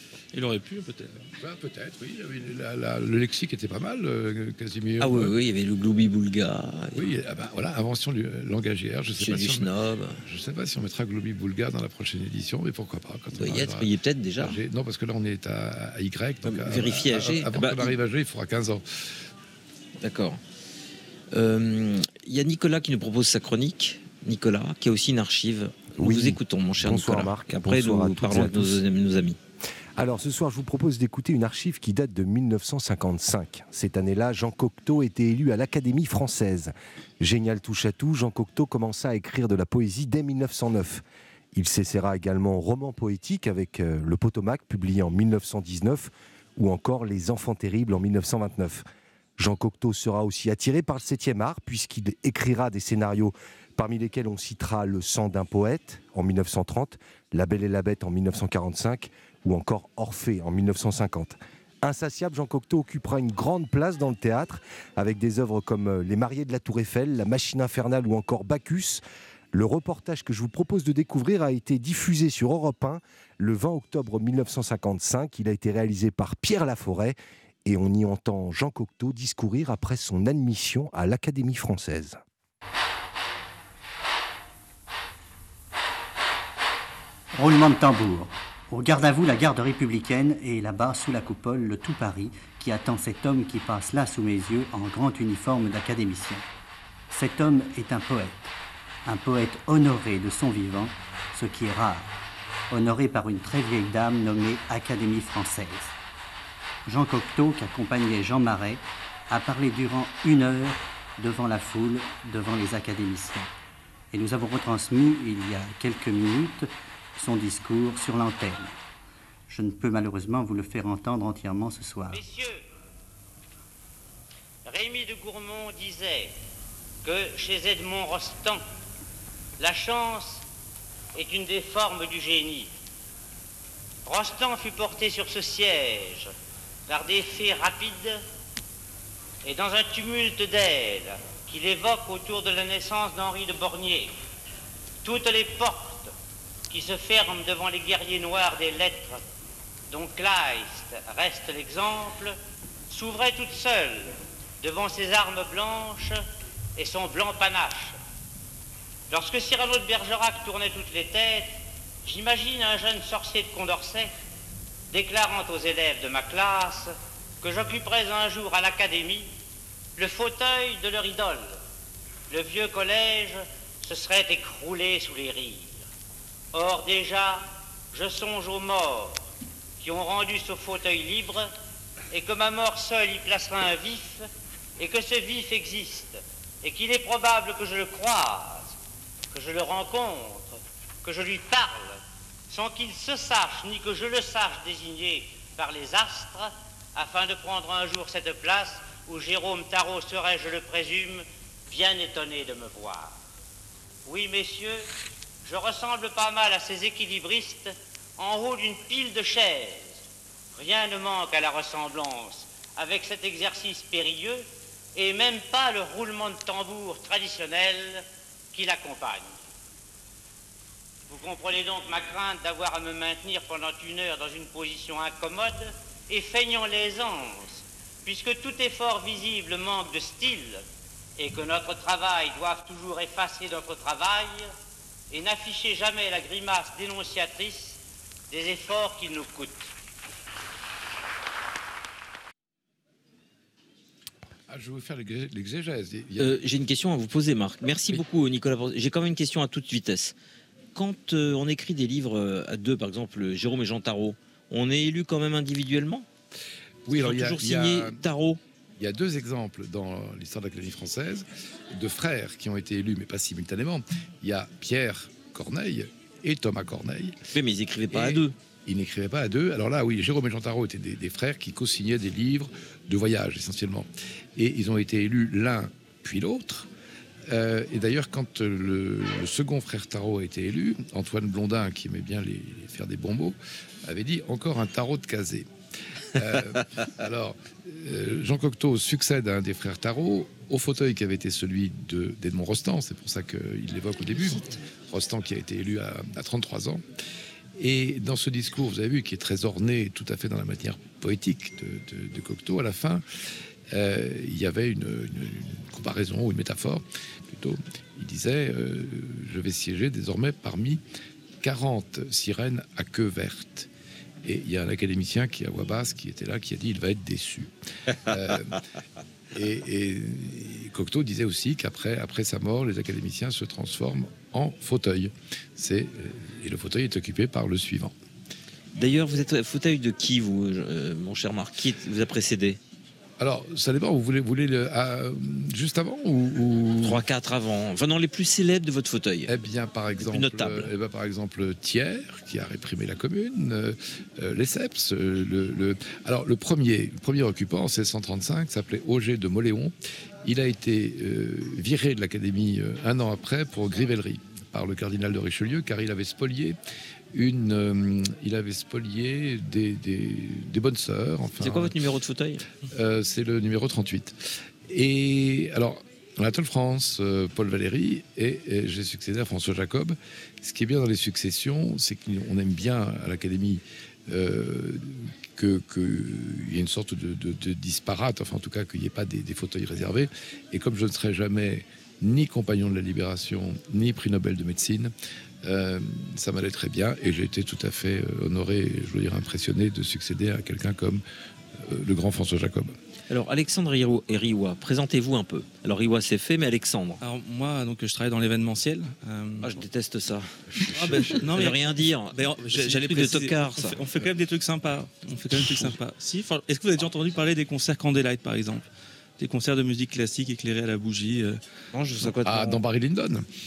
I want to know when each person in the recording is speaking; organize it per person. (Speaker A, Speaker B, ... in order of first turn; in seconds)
Speaker A: 0.3-1.2, 397.0-399.6, 400.7-408.6, 409.2-411.4
Speaker B: 1.4-5.3, 6.9-9.7, 10.2-18.8, 244.5-246.4, 256.8-258.0, 258.8-267.1, 267.9-276.7, 277.3-285.5, 286.1-296.8, 297.6-303.0, 303.7-310.8, 311.4-313.7, 314.2-318.6, 319.3-327.9, 333.2-337.0, 339.3-349.7, 350.2-356.6, 357.1-361.8, 362.7-364.1, 364.7-384.9, 385.4-391.0, 391.6-392.7, 412.2-413.2
Speaker C: 5.0-7.1, 9.2-10.2, 13.3-14.6, 16.4-17.9, 20.0-20.4, 21.3-29.4, 246.2-250.1, 250.7-256.1, 256.9-258.4, 267.3-268.3, 328.8-332.6, 336.8-339.3, 340.0-340.7, 361.4-362.4, 393.1-397.0, 399.4-403.8, 411.7-412.6
Speaker D: 26.0-28.8, 29.9-48.8, 49.4-82.2
Speaker E: 87.3-96.5, 97.1-98.5, 99.0-102.1, 102.7-105.9, 106.8-113.5, 114.1-118.8, 119.5-122.2
Speaker F: 122.1-122.6, 124.6-126.3, 127.0-128.6, 129.6-130.4, 131.1-132.7, 134.0-136.3, 136.9-138.2, 139.4-144.1, 145.0-146.1, 146.7-149.2, 149.9-152.3, 152.9-156.2, 156.8-157.9, 159.1-161.5, 162.0-164.1, 164.9-169.3, 170.0-171.5, 172.3-175.8, 176.5-179.2, 179.8-181.5, 182.1-184.2, 184.8-188.7, 189.3-203.2, 204.1-204.8, 205.4-209.9, 210.6-219.4, 221.1-230.6, 231.2-234.5, 235.1-237.8, 238.3-239.7